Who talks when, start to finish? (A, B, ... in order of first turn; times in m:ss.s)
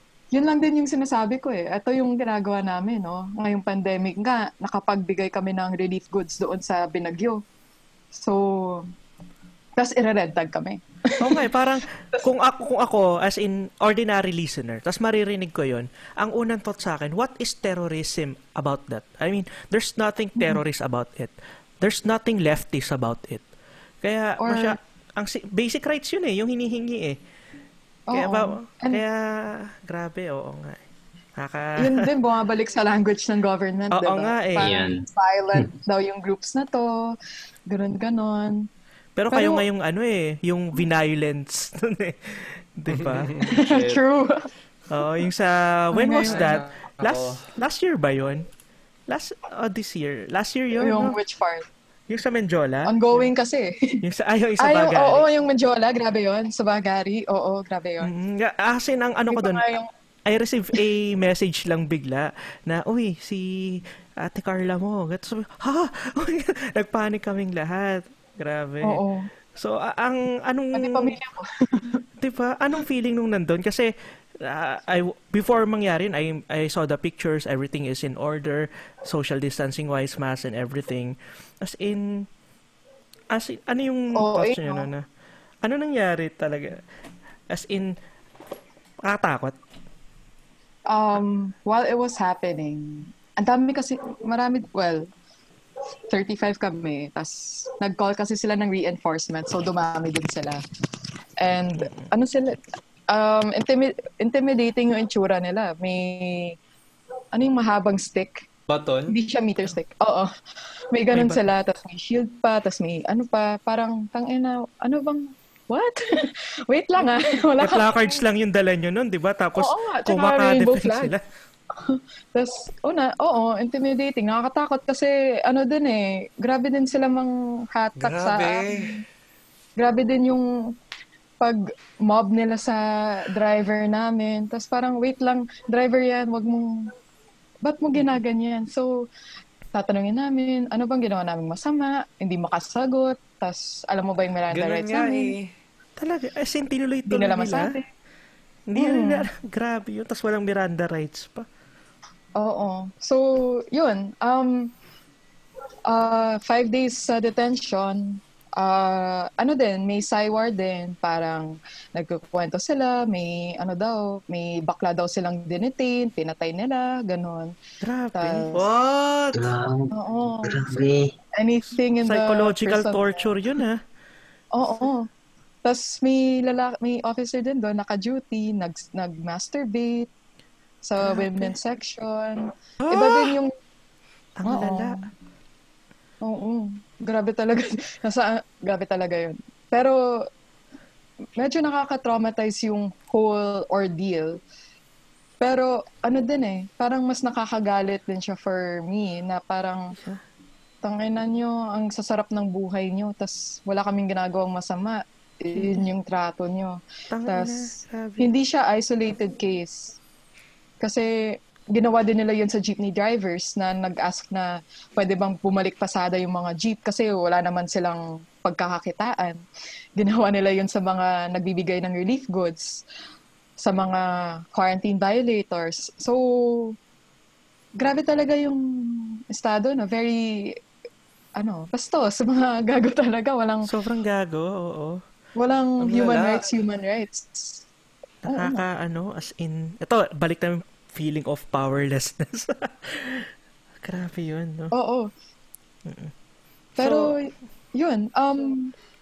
0:00.3-0:07.4 A
0:08.1-0:08.9 A
0:09.8-0:11.5 A
0:11.2-0:23.4 B
0:24.0-0:27.2 B
0:24.4-0:24.8 A
0:28.1-0:29.0 A
0:28.1-0:30.8 B
0:31.4-0:32.1 B
0:31.8-0:38.7 A
0:33.9-0:34.7 B
0:34.6-0:35.7 C
0:39.2-0:43.6 B
0:39.3-0:39.6 A
0:42.9-0:44.0 D
0:43.5-0:44.5 A
0:44.9-0:48.5 B
0:45.9-0:46.6 A
0:46.3-0:47.5 D
0:49.1-0:51.2 B
0:50.8-0:51.7 A
0:52.1-0:52.9 B
0:52.8-0:54.0 A
0:54.0-0:55.2 B
0:54.6-0:58.1 A
0:58.0-0:59.6 B
0:59.3-0:59.9 A
1:00.3-1:09.0 B
1:08.8-1:09.3 A
1:09.5-1:11.1 B
1:10.7-1:12.0 A
1:12.2-1:22.3 B
1:23.3-1:25.0 B
1:24.1-1:24.9 A
1:25.6-1:26.8 B
1:27.5-1:27.9 B
1:29.0-1:29.6 B
1:30.9-1:35.1 A
1:36.1-1:40.6 A
1:41.4-1:46.6 A
1:41.8-1:42.1 B
1:47.3-1:48.5 A
1:48.7-1:49.2 D
1:49.1-1:50.3 A
1:50.9-1:58.2 A
1:51.1-1:51.5 B
1:57.6-2:01.2 B
1:59.6-2:01.1 A
2:01.8-2:09.0 A
2:08.0-2:09.0 D
2:09.8-2:10.8 A
2:11.4-2:16.9 A
2:17.6-2:19.1 A
2:19.7-2:25.3 A
2:24.5-2:25.5 D
2:26.0-2:27.8 B
2:27.1-2:27.8 A
2:28.7-2:31.5 B
2:28.8-2:29.3 A
2:32.4-2:34.7 A
2:35.8-2:47.5 A
2:47.8-2:48.5 B
2:48.2-2:48.7 A
2:48.5-2:49.5 D
2:49.3-2:49.9 C
2:49.9-2:50.7 A
2:50.4-2:51.1 C
2:51.3-2:53.3 A
2:52.0-2:53.8 B
2:54.5-2:55.1 A
2:55.6-3:00.1 A
3:00.8-3:03.5 A
3:01.0-3:01.5 B
3:02.8-3:03.4 B
3:04.4-3:05.0 B
3:04.5-3:05.0 A
3:06.2-3:10.3 A
3:11.4-3:14.4 A
3:15.4-3:20.0 A
3:20.8-3:30.0 A
3:25.5-3:25.8 B
3:27.1-3:28.3 B
3:30.8-3:39.4 A
3:40.0-3:42.8 A
3:43.6-3:46.8 A
3:47.8-3:50.6 A
3:51.4-3:53.7 A
3:53.6-3:55.0 B
3:55.4-3:57.6 A
3:55.8-3:56.3 D
3:56.0-3:56.3 B
3:58.2-4:03.3 B
3:58.3-3:58.6 A
4:03.8-4:04.7 B
4:04.7-4:05.1 A
4:05.9-4:06.1 B
4:06.8-4:08.7 A
4:06.8-4:07.2 B